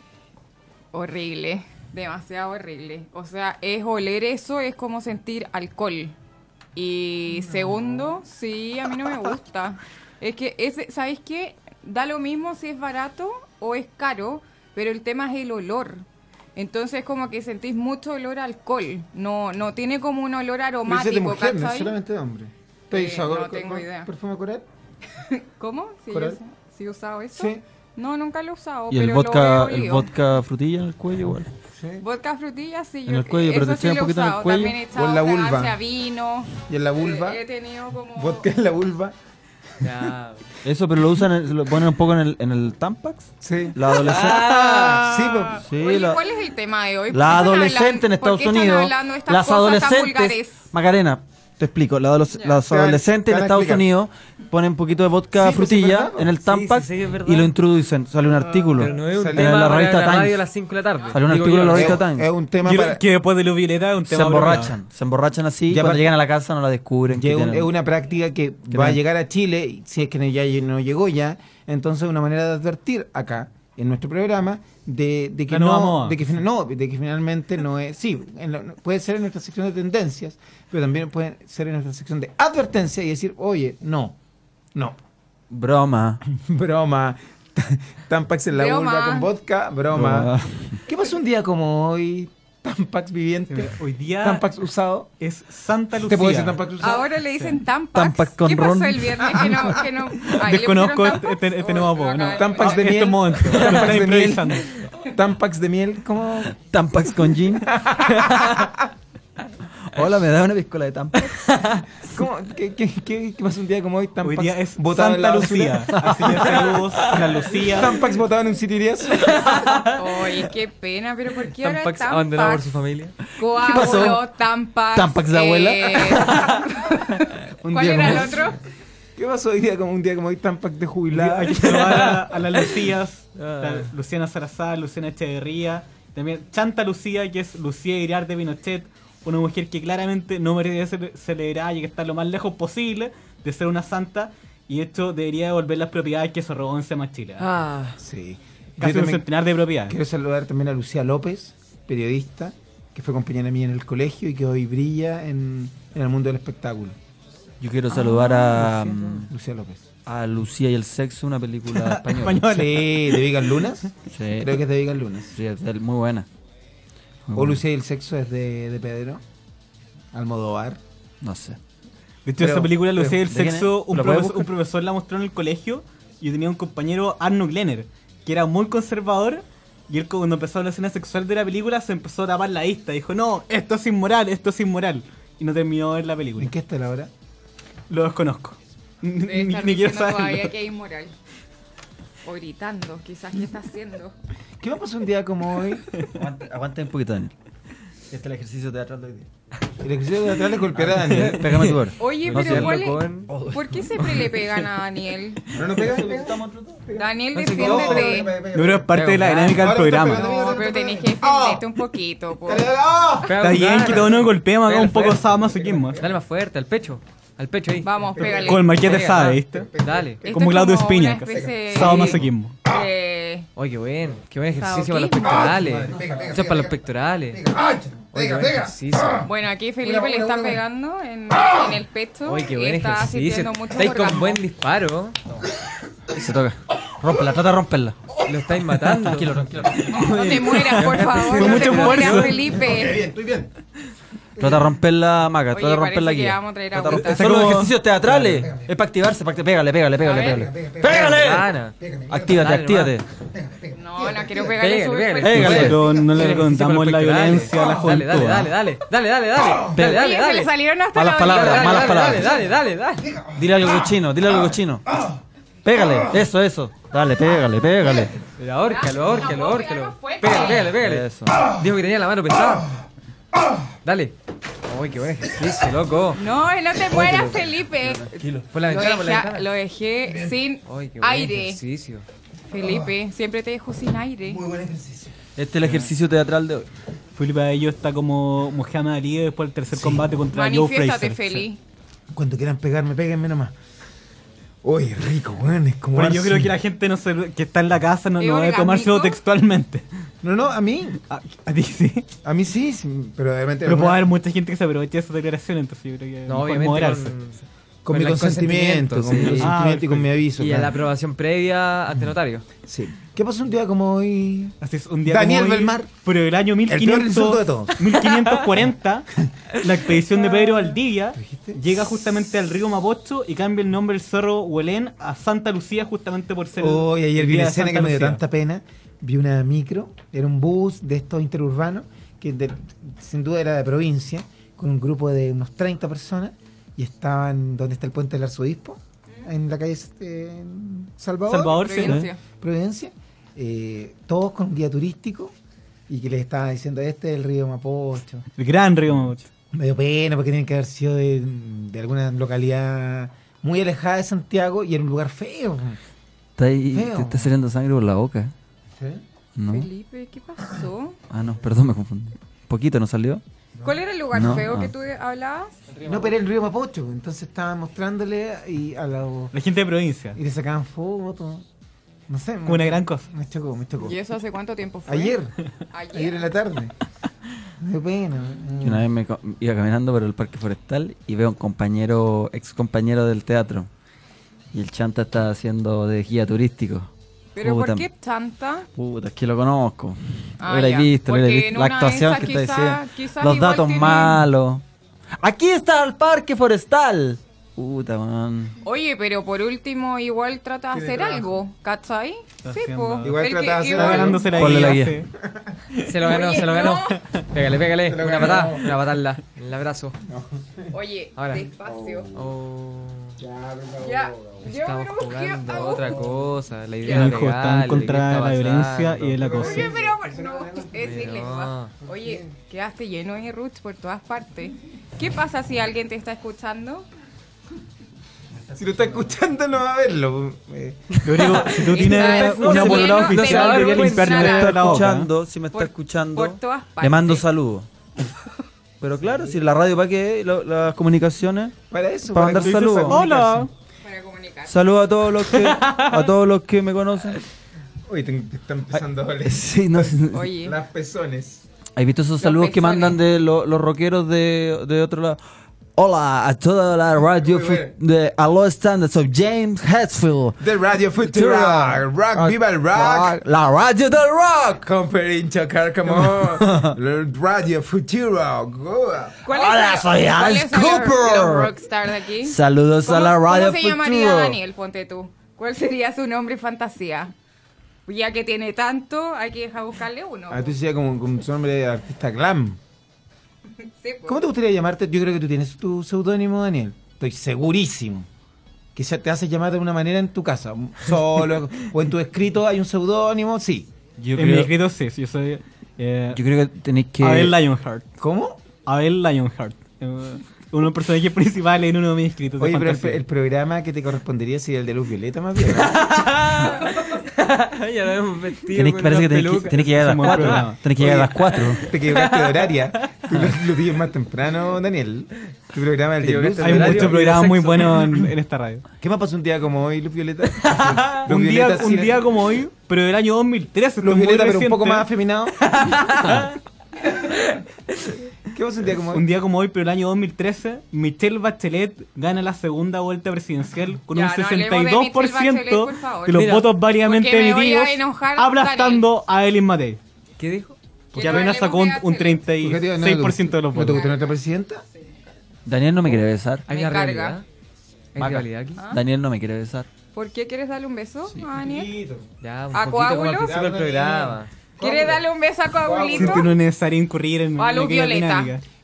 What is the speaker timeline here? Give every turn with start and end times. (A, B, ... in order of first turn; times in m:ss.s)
0:00.9-0:06.1 A
0:06.7-0:16.0 A
0:16.5-0:21.9 A
0:20.8-0:24.6 B
0:22.9-0:24.1 A
0:25.2-0:30.1 A
0:26.1-0:26.4 B
0:27.3-0:27.6 B
0:28.9-0:31.5 C
0:31.7-0:32.0 B
0:32.0-0:38.4 A
0:33.1-0:34.8 C
0:34.9-0:35.8 B
0:36.7-0:37.4 B
0:38.2-0:39.1 B
0:39.8-0:40.4 D
0:40.6-0:45.0 C
0:43.4-0:44.4 B
0:43.9-0:45.5 D
0:45.0-0:45.6 B
0:45.6-0:46.2 C
0:45.7-0:50.6 A
0:47.1-1:00.4 C
0:52.6-0:53.9 B
0:55.3-0:56.3 B
0:56.4-0:57.5 D
0:58.6-1:02.0 D
0:59.0-0:59.8 B
1:01.1-1:02.3 C
1:01.7-1:03.0 B
1:02.6-1:04.7 E
1:04.1-1:07.7 C
1:05.7-1:06.1 B
1:07.1-1:24.2 B
1:08.7-1:09.0 C
1:15.5-1:16.4 E
1:24.7-1:25.0 B
1:25.5-1:26.2 C
1:26.3-1:30.3 B
1:28.5-1:29.3 A
1:29.9-1:30.8 C
1:30.8-1:35.1 B
1:33.5-1:34.5 E
1:35.2-1:36.6 E
1:36.0-1:37.1 B
1:36.8-1:43.0 A
1:37.9-1:39.5 C
1:40.3-1:44.7 E
1:42.3-1:46.6 B
1:46.7-1:48.6 C
1:47.7-1:48.7 B
1:49.9-1:51.8 C
1:52.1-1:56.6 B
1:54.2-1:57.9 E
1:56.0-1:56.8 C
1:57.6-1:59.7 B
1:59.4-1:59.8 D
2:00.0-2:02.7 A
2:01.6-2:03.2 D
2:03.4-2:07.1 A
2:03.5-2:04.2 C
2:04.9-2:06.6 C
2:07.6-2:08.6 A
2:07.8-2:08.3 C
2:09.2-2:12.1 B
2:11.1-2:27.4 E
2:11.7-2:12.1 D
2:13.4-2:13.9 D
2:27.4-2:28.0 D
2:28.0-2:29.3 B
2:28.8-2:30.0 E
2:29.9-2:37.0 B
2:37.6-2:39.3 C
2:39.2-2:39.8 B
2:40.0-2:42.5 C
2:41.7-2:43.3 E
2:42.5-2:45.4 B
2:44.1-2:44.6 C
2:45.3-2:46.3 C
2:47.2-2:47.6 C
2:47.3-2:49.2 B
2:50.1-2:50.8 B
2:51.2-2:51.6 C
2:52.2-3:06.5 E
2:52.4-2:53.2 B
2:53.0-2:54.5 C
3:06.4-3:07.1 B
3:07.9-3:10.5 E
3:09.2-3:11.1 A
3:12.2-3:14.1 A
3:14.6-3:15.9 B
3:16.1-3:17.3 C
3:18.1-3:19.3 C
3:19.8-3:21.7 B
3:20.8-3:24.4 C
3:22.0-3:25.4 A
3:22.3-3:23.3 D
3:25.5-3:31.8 B
3:25.6-3:26.8 C
3:27.0-3:28.3 A
3:27.4-3:27.8 D
3:27.5-3:28.0 C
3:28.5-3:30.3 E
3:28.9-3:29.7 D
3:30.1-3:32.7 A
3:32.4-3:34.3 B
3:33.2-3:35.2 D
3:33.4-3:36.0 E
3:35.0-3:36.2 B
3:36.0-3:40.2 D
3:37.8-3:38.9 A
3:38.1-3:40.4 B
3:38.4-3:39.7 E
3:40.2-3:43.5 A
3:40.3-3:42.6 E
3:41.2-3:42.2 B
3:43.6-3:47.5 D
3:44.6-3:45.5 A
3:45.3-3:46.8 B
3:47.3-3:49.0 B
3:48.1-3:49.2 D
3:49.2-3:54.4 A
3:49.8-3:50.6 B
3:52.2-3:55.2 D
3:56.1-3:58.0 C
3:58.2-3:59.3 D
3:59.0-4:01.0 C
4:00.0-4:03.0 A
4:00.6-4:02.5 E
4:00.7-4:02.4 D
4:02.6-4:03.5 B
4:04.4-4:04.6 B
4:04.4-4:11.5 C
4:05.5-4:07.3 A
4:06.9-4:07.7 E
4:08.1-4:08.7 B
4:10.0-4:10.5 A
4:10.2-4:12.4 B
4:10.9-4:11.7 D
4:12.1-4:13.0 C
4:12.3-4:12.9 D
4:13.3-4:14.5 B
4:13.7-4:15.8 A
4:14.6-4:20.5 D
4:15.2-4:15.8 C
4:15.4-4:18.5 E
4:19.8-4:20.0 C
4:19.8-4:22.2 A
4:20.9-4:22.4 C
4:21.2-4:23.1 D
4:23.2-4:23.4 B
4:23.3-4:24.9 C
4:25.6-4:28.1 C
4:28.4-4:32.7 D
4:28.6-4:30.7 A
4:30.7-4:31.5 C
4:33.8-4:34.1 D
4:34.7-4:36.2 D
4:36.2-4:41.6 A
4:37.0-4:37.2 C
4:38.5-4:39.5 D
4:38.6-4:38.9 B
4:40.7-4:42.0 D
4:42.5-4:44.4 A
4:42.5-4:42.9 B
4:44.2-4:45.1 B
4:45.4-4:46.7 C
4:47.2-4:51.5 E
4:49.7-4:50.0 B
4:50.3-4:51.6 A
4:52.1-4:53.5 B
4:54.6-4:56.5 B
4:55.9-4:59.8 E
4:58.2-4:59.2 A
5:00.2-5:01.0 B
5:01.0-5:02.0 E
5:02.2-5:04.1 B
5:03.6-5:07.1 E
5:06.3-5:09.5 D
5:07.8-5:10.8 B
5:09.4-5:10.1 E
5:10.4-5:12.4 D
5:12.6-5:15.9 B
5:14.6-5:28.2 E
5:16.6-5:17.8 B
5:21.1-5:21.6 B
5:26.6-5:45.3 B
5:41.3-5:42.1 E
5:41.6-5:42.2 A
5:45.9-5:48.2 B
5:48.4-5:49.2 E
5:49.5-5:55.8 B
5:56.4-5:58.3 C
5:56.7-5:57.3 B
5:58.7-5:59.0 B
5:59.4-5:59.7 C
5:59.5-6:01.0 A
6:01.1-6:03.2 C
6:03.6-6:05.5 A
6:04.1-6:04.7 C
6:05.8-6:09.3 B
6:09.3-6:10.2 E
6:10.1-6:11.4 B
6:12.1-6:14.0 B
6:12.4-6:13.1 E
6:13.8-6:15.2 A
6:14.9-6:15.3 B
6:15.7-6:16.2 A
6:15.9-6:16.7 B
6:17.6-6:18.9 B
6:18.6-6:23.7 C
6:24.5-6:27.9 C
6:27.4-6:28.7 A
6:28.7-6:34.6 C
6:30.4-6:34.2 A
6:35.2-6:38.6 C
6:38.6-6:44.3 A
6:40.7-6:41.4 B
6:42.4-6:45.1 E
6:43.0-6:44.7 B
6:44.3-6:45.0 C
6:45.2-6:45.5 B
6:45.8-6:50.0 D
6:46.0-6:47.0 A
6:46.9-6:47.2 E
6:47.8-6:48.7 B
6:50.0-6:50.7 B
6:50.7-6:52.1 A
6:51.2-6:51.4 D
6:51.6-6:52.1 B
6:52.1-6:53.2 D
6:53.2-6:54.5 B
6:53.8-6:56.0 A
6:54.4-6:59.2 D
6:55.8-6:56.0 B
6:56.8-6:57.1 A
6:56.8-6:59.7 E
6:59.2-7:01.1 B
6:59.3-7:06.8 A
7:00.8-7:01.7 D
7:01.8-7:02.3 B
7:08.5-7:11.5 B
7:11.0-7:15.1 E
7:11.6-7:14.8 A
7:12.0-7:17.7 C
7:12.4-7:14.2 D
7:15.5-7:17.2 A
7:18.8-7:21.6 C
7:19.0-7:19.4 B
7:21.7-7:23.4 B
7:22.1-7:23.3 C
7:22.3-7:23.5 E
7:23.8-7:24.6 A
7:24.5-7:27.2 C
7:27.8-7:31.4 B
7:28.7-7:30.3 C
7:30.1-7:30.5 A
7:31.8-7:35.2 C
7:32.2-7:33.0 A
7:35.8-7:40.4 C
7:37.1-7:37.7 B
7:40.4-7:43.2 B
7:41.0-7:44.6 C
7:44.5-7:49.2 B
7:45.9-7:46.7 C
7:49.2-7:57.1 A
7:49.2-7:51.5 C
7:52.2-7:54.4 C
7:57.8-8:00.5 A
8:00.3-8:02.6 B
8:03.8-8:04.2 A
8:04.0-8:08.1 B
8:08.7-8:13.7 B
8:14.0-8:14.5 C
8:14.1-8:16.2 E
8:16.1-8:17.4 C
8:17.0-8:17.8 E
8:18.0-8:18.4 B
8:18.6-8:23.0 E
8:22.4-8:26.0 B
8:25.5-8:30.4 D
8:28.5-8:31.6 C
8:29.8-8:30.6 E
8:30.7-8:37.0 B
8:31.7-8:33.0 D
8:36.0-8:38.0 D
8:36.4-8:38.6 E
8:38.8-8:42.1 B
8:40.5-8:44.9 E
8:43.8-8:45.4 B
8:45.5-8:46.3 D
8:48.3-8:49.1 B
8:48.9-8:59.8 E
8:53.9-8:58.8 A
8:56.1-8:56.5 D
9:00.2-9:01.2 D
9:00.9-9:02.3 A
9:00.9-9:03.8 E
9:02.4-9:04.6 B
9:03.7-9:04.1 A
9:05.4-9:06.4 C
9:06.5-9:07.2 D
9:06.5-9:07.2 A
9:07.9-9:08.6 D
9:08.0-9:09.7 C
9:08.6-9:08.8 A
9:09.9-9:11.7 A
9:11.3-9:12.1 B
9:12.2-9:14.3 D
9:12.5-9:13.4 A
9:13.2-9:15.0 B
9:14.6-9:16.3 A
9:15.6-9:16.3 B
9:15.9-9:18.4 E
9:17.4-9:18.4 A